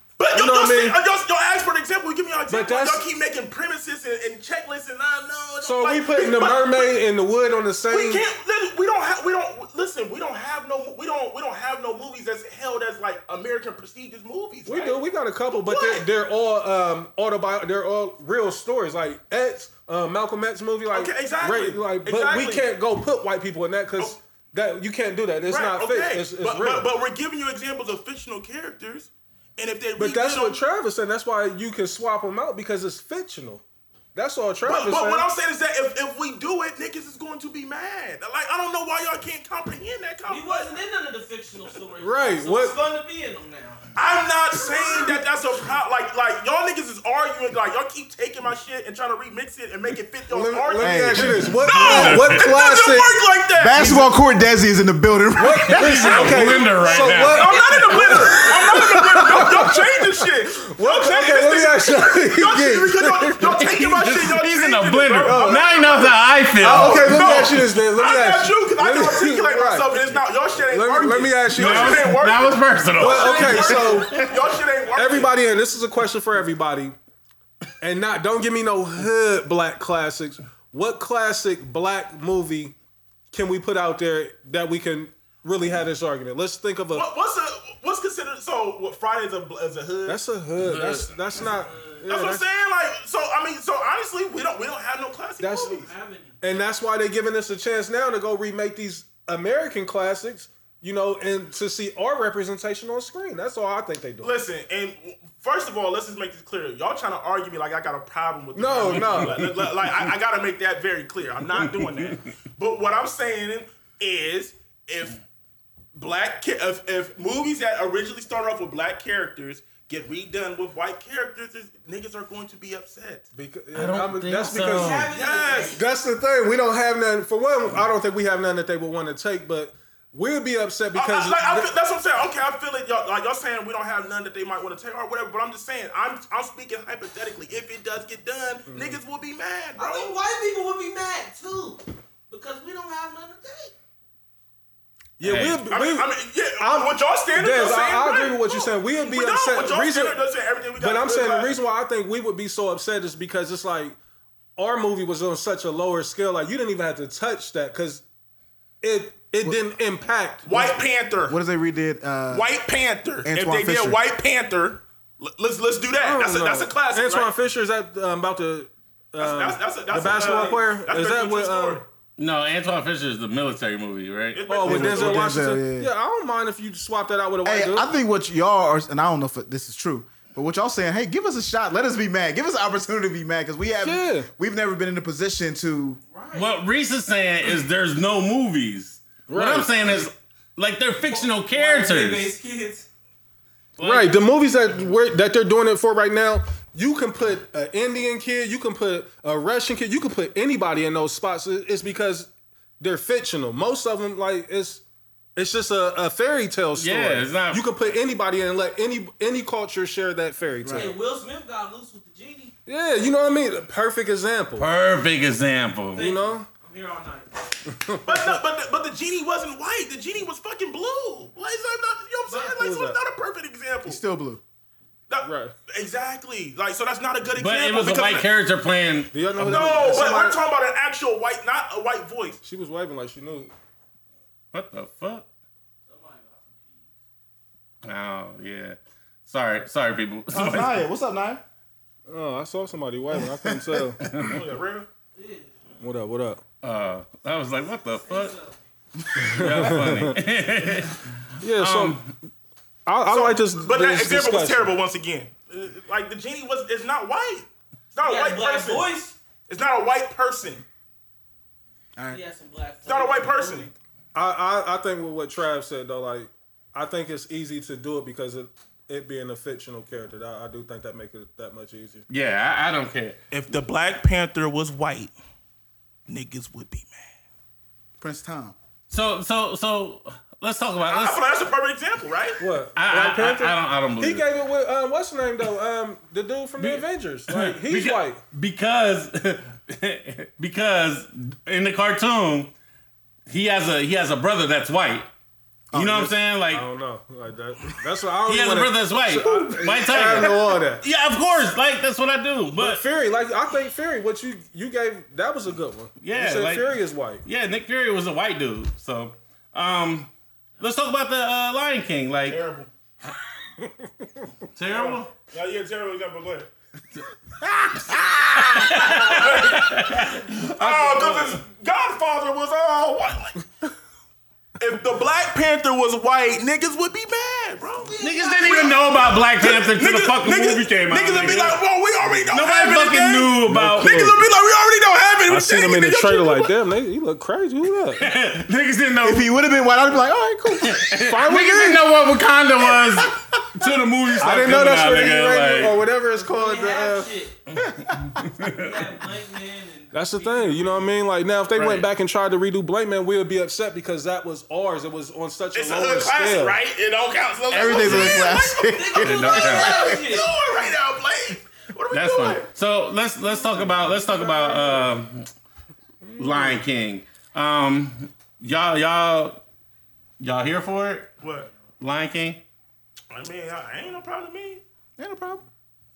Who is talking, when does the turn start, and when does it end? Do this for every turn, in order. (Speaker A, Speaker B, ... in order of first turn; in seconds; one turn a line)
Speaker A: 0.2-7.0
Speaker B: 0.3-1.0
Speaker B: 2.5-3.0
Speaker B: 5.6-8.2
Speaker A: 7.9-15.0
Speaker B: 14.7-26.9
Speaker A: 15.5-16.1
Speaker A: 20.9-22.7
Speaker A: 25.5-30.6
Speaker B: 30.0-33.6
Speaker B: 34.1-35.3
Speaker A: 34.6-40.7
Speaker C: 40.3-43.8
Speaker B: 42.0-42.8
Speaker A: 43.9-54.0
Speaker B: 50.3-53.1
Speaker D: 50.8-51.6
Speaker E: 51.6-52.5
Speaker D: 53.6-56.6
Speaker B: 55.3-63.6
Speaker E: 55.6-58.2
Speaker A: 56.2-75.3
Speaker E: 63.5-67.4
Speaker B: 65.2-65.9
Speaker B: 66.6-70.0
Speaker D: 67.0-67.5
Speaker B: 70.6-72.2
Speaker E: 71.5-74.3
Speaker B: 73.0-74.2
Speaker B: 74.9-77.0
Speaker B: 77.8-82.7
Speaker B: 83.3-87.1
Speaker A: 86.9-90.2
Speaker B: 90.0-92.4
Speaker E: 90.6-91.1
Speaker C: 91.6-92.0
Speaker A: 92.1-95.8
Speaker B: 95.4-95.9
Speaker C: 95.8-96.3
Speaker B: 96.4-104.3
Speaker A: 104.2-115.2
Speaker B: 108.5-109.4
Speaker E: 109.2-109.4
Speaker E: 111.6-112.3
Speaker A: 115.9-123.3
Speaker B: 123.3-125.1
Speaker E: 123.7-125.1
Speaker C: 124.6-125.8
Speaker A: 125.1-125.8
Speaker B: 125.7-131.7
Speaker A: 130.9-140.2
Speaker B: 138.7-139.0
Speaker C: 139.8-143.7
Speaker B: 145.2-150.2
Speaker E: 145.2-145.6
Speaker A: 145.7-151.6
Speaker B: 150.8-154.0
Speaker B: 154.6-158.0
Speaker B: 158.8-160.7
Speaker A: 160.4-161.4
Speaker D: 161.3-162.5
Speaker A: 162.3-167.3
Speaker D: 163.2-164.0
Speaker B: 165.9-171.8
Speaker A: 169.2-171.8
Speaker C: 170.1-170.6
Speaker E: 172.2-174.6
Speaker A: 174.3-175.4
Speaker B: 174.5-177.9
Speaker D: 174.6-175.9
Speaker D: 177.4-186.0
Speaker B: 183.8-184.3
Speaker C: 186.1-186.6
Speaker E: 186.3-192.3
Speaker B: 189.3-190.0
Speaker C: 191.0-192.9
Speaker E: 193.8-194.2
Speaker B: 193.8-204.8
Speaker B: 205.3-210.9
Speaker E: 206.7-207.7
Speaker D: 210.6-210.9
Speaker C: 210.7-212.5
Speaker B: 212.7-214.7
Speaker E: 214.6-216.1
Speaker C: 215.9-217.3
Speaker B: 216.0-216.5
Speaker B: 217.7-218.4
Speaker A: 218.0-224.0
Speaker C: 222.3-222.6
Speaker B: 222.6-223.0
Speaker D: 223.8-224.4
Speaker A: 225.1-228.3
Speaker B: 225.2-225.5
Speaker E: 227.3-229.2
Speaker B: 229.1-230.4
Speaker A: 229.4-232.4
Speaker B: 232.4-233.5
Speaker E: 234.5-235.3
Speaker C: 235.9-236.9
Speaker E: 237.8-240.8
Speaker D: 240.3-241.4
Speaker B: 242.1-244.0
Speaker D: 243.2-244.0
Speaker E: 244.0-244.4
Speaker A: 244.1-244.9
Speaker C: 245.1-245.6
Speaker B: 245.8-246.4
Speaker E: 246.6-248.3
Speaker C: 248.1-248.6
Speaker E: 249.2-252.1
Speaker B: 249.2-250.2
Speaker B: 251.4-252.1
Speaker B: 252.8-254.7
Speaker A: 253.1-258.9
Speaker C: 258.0-259.2
Speaker A: 259.5-260.6
Speaker D: 261.9-262.2
Speaker C: 262.1-263.7
Speaker A: 262.9-263.7
Speaker B: 264.1-272.0
Speaker E: 272.1-273.2
Speaker A: 273.3-275.1
Speaker A: 276.1-277.1
Speaker D: 278.0-278.6
Speaker E: 278.9-281.2
Speaker A: 280.9-282.4
Speaker B: 282.4-288.2
Speaker E: 282.7-284.3
Speaker E: 286.6-292.5
Speaker E: 293.3-295.1
Speaker E: 295.7-296.7
Speaker B: 295.7-300.8
Speaker E: 298.2-302.8
Speaker B: 302.6-307.2
Speaker E: 306.0-312.4
Speaker A: 312.3-312.7
Speaker B: 313.6-314.3
Speaker E: 314.5-315.1
Speaker A: 314.7-316.5
Speaker E: 317.7-321.4
Speaker A: 318.6-320.0
Speaker A: 320.6-323.4
Speaker A: 324.6-336.5
Speaker E: 328.0-331.6
Speaker E: 332.3-334.1
Speaker B: 333.4-334.2
Speaker B: 335.3-338.1
Speaker E: 338.0-339.3
Speaker D: 339.0-340.9
Speaker E: 340.6-345.8
Speaker B: 341.0-341.8
Speaker B: 344.2-347.1
Speaker C: 346.2-347.4
Speaker E: 347.5-348.7
Speaker D: 347.6-348.2
Speaker C: 348.4-350.9
Speaker B: 349.9-356.6
Speaker E: 351.5-351.9
Speaker A: 355.5-362.5
Speaker D: 357.5-360.0
Speaker E: 357.8-358.2
Speaker C: 358.6-360.3
Speaker E: 359.0-359.9
Speaker E: 361.9-365.3
Speaker B: 363.4-364.9
Speaker B: 366.1-366.6
Speaker E: 366.2-369.4
Speaker E: 370.2-371.1
Speaker A: 371.2-371.5
Speaker E: 371.8-372.4
Speaker A: 373.1-374.6
Speaker D: 375.0-375.4